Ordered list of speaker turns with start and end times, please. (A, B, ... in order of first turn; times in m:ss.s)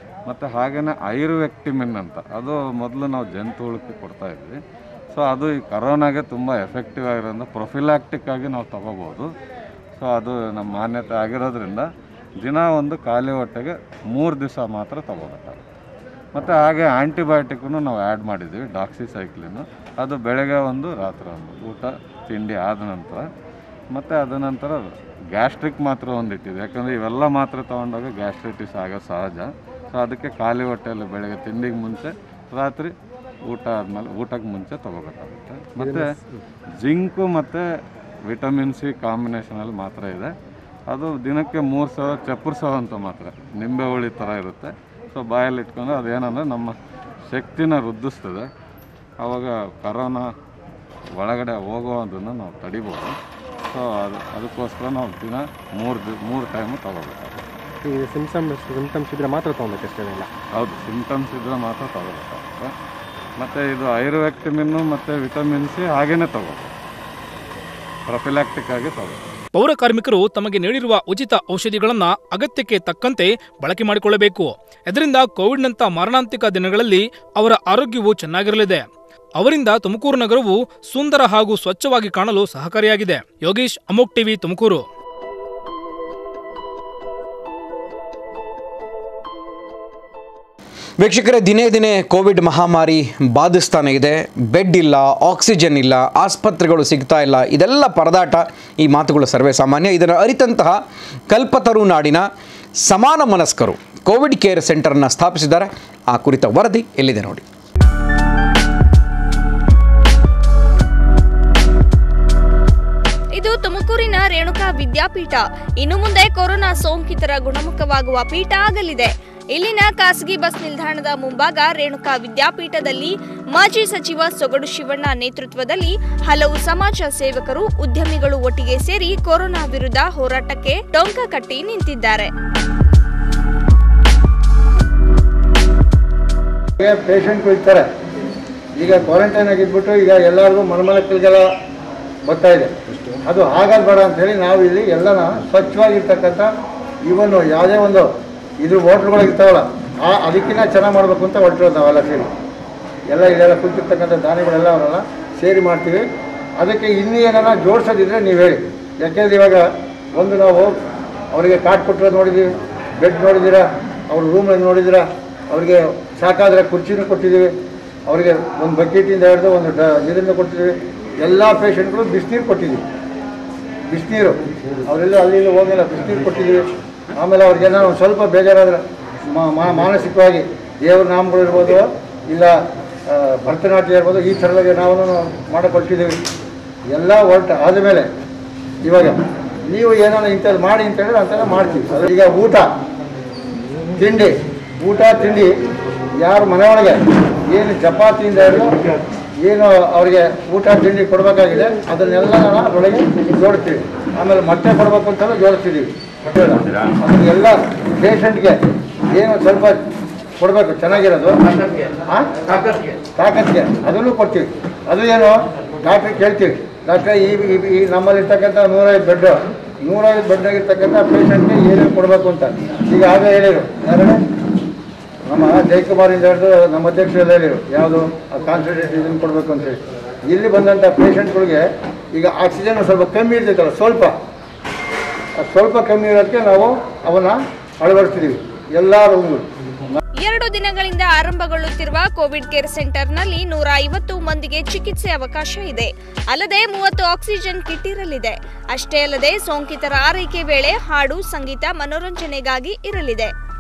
0:00.3-0:04.6 A
0:05.1-0:09.3 A
0:10.0-0:11.9 A
0:12.4-0:15.6 A
0:16.4-0:23.3 A
0:23.9-0:32.9 A
0:33.5-0:36.1 A
0:35.8-0:36.4 B
0:36.8-0:37.6 A
0:38.3-0:40.3 A
0:40.9-0:46.8 A
0:47.3-0:48.5 A
0:49.2-0:50.3 A
0:51.2-0:53.2 A
0:53.7-0:57.4 A
0:57.8-1:00.3 B
1:00.6-1:02.7 A
1:03.4-1:06.7 A
1:08.1-1:09.2 A
1:09.6-1:18.8 C
1:19.4-1:24.8 C
1:31.0-1:42.3 D
1:42.8-1:47.4 D
1:53.4-2:12.3 E
2:16.8-2:17.9 F
2:18.8-2:21.5 F
2:22.3-2:22.7 F
2:23.2-2:26.5 F
2:27.1-2:28.1 F
2:28.6-2:32.3 F
2:33.1-2:36.0 F
2:36.6-2:40.8 F
2:41.3-2:47.5 F
2:48.1-2:52.8 F
2:53.9-3:02.6 F
3:03.1-3:06.2 F
3:06.9-3:08.1 F
3:08.8-3:12.7 F
3:14.0-3:15.5 F
3:16.2-3:18.7 F
3:19.4-3:29.8 F
3:30.4-3:31.4 F
3:32.1-3:32.3 F
3:33.2-3:44.2 F
3:45.3-3:54.2 F
3:55.4-3:59.5 F
4:00.2-4:13.3 E